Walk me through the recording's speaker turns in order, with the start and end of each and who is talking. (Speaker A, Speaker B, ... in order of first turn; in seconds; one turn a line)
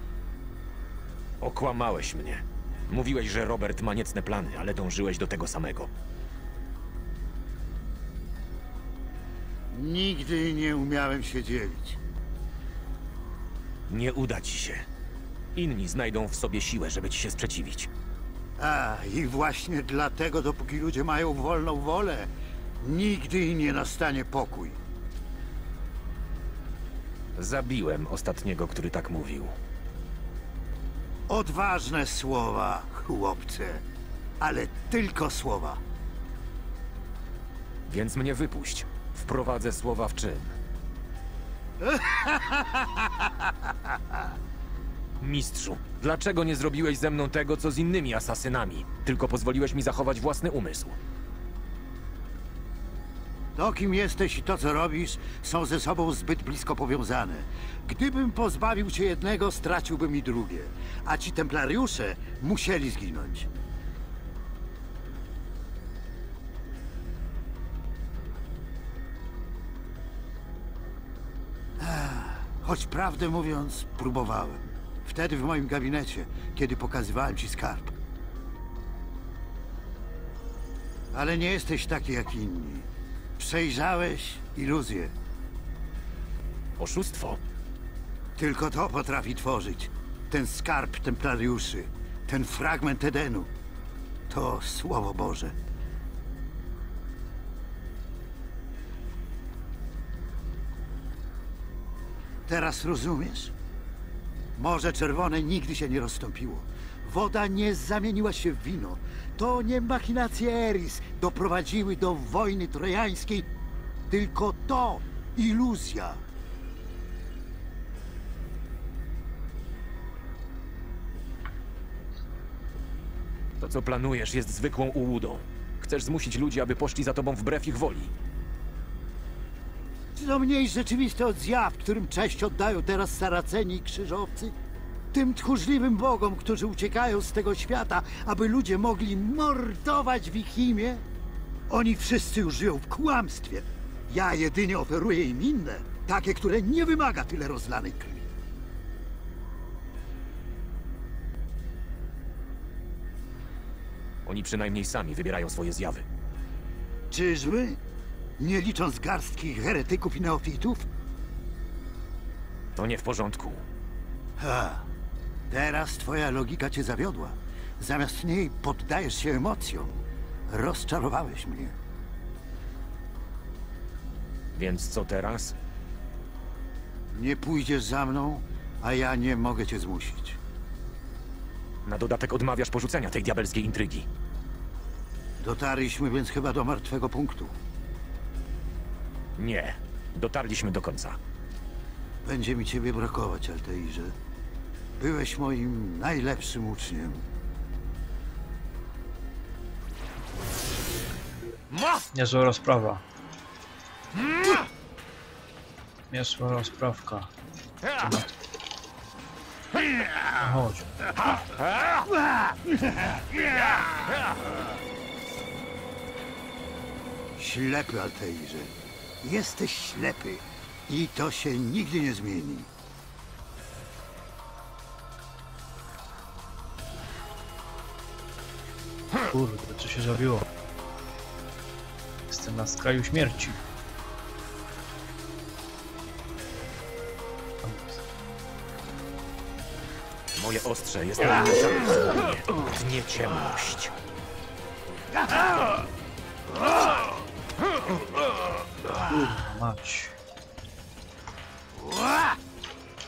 Speaker A: 1.4-5.9
Speaker B: 9.7-12.0
Speaker A: 13.9-14.9
Speaker A: 15.5-17.9
Speaker B: 18.6-22.3
Speaker B: 22.8-24.8
Speaker A: 27.4-29.5
Speaker B: 31.3-33.8
Speaker B: 34.4-35.8
Speaker A: 37.9-40.5
Speaker B: 41.8-43.3
Speaker A: 45.2-51.0
Speaker B: 53.5-63.5
Speaker B: 71.8-77.9
Speaker B: 81.1-82.9
Speaker B: 83.4-85.1
Speaker A: 86.8-87.4
Speaker B: 88.4-93.5
Speaker B: 94.3-95.5
Speaker B: 102.5-103.5
Speaker B: 104.5-113.5
Speaker B: 114.1-116.2
Speaker A: 123.6-128.1
Speaker B: 130.1-134.5
Speaker B: 135.1-141.0
Speaker B: 141.7-148.3
Speaker A: 154.2-156.1
Speaker B: 157.1-157.8
Speaker B: 158.4-160.9
Speaker A: 162.7-163.6
Speaker B: 164.4-164.9
Speaker B: 165.5-171.7
Speaker A: 174.5-175.6
Speaker B: 177.1-180.4
Speaker A: 181.8-184.1
Speaker B: 185.4-187.5
Speaker A: 189.3-191.2
Speaker B: 192.2-194.1
Speaker B: 195.0-197.3
Speaker C: 202.1-203.0
Speaker C: 206.1-207.3
Speaker C: 208.0-208.3
Speaker C: 210.4-210.9
Speaker B: 217.4-222.7
Speaker C: 229.3-230.5
Speaker C: 232.3-233.6
Speaker C: 237.6-238.0
Speaker A: 240.3-243.9
Speaker C: 249.1-250.1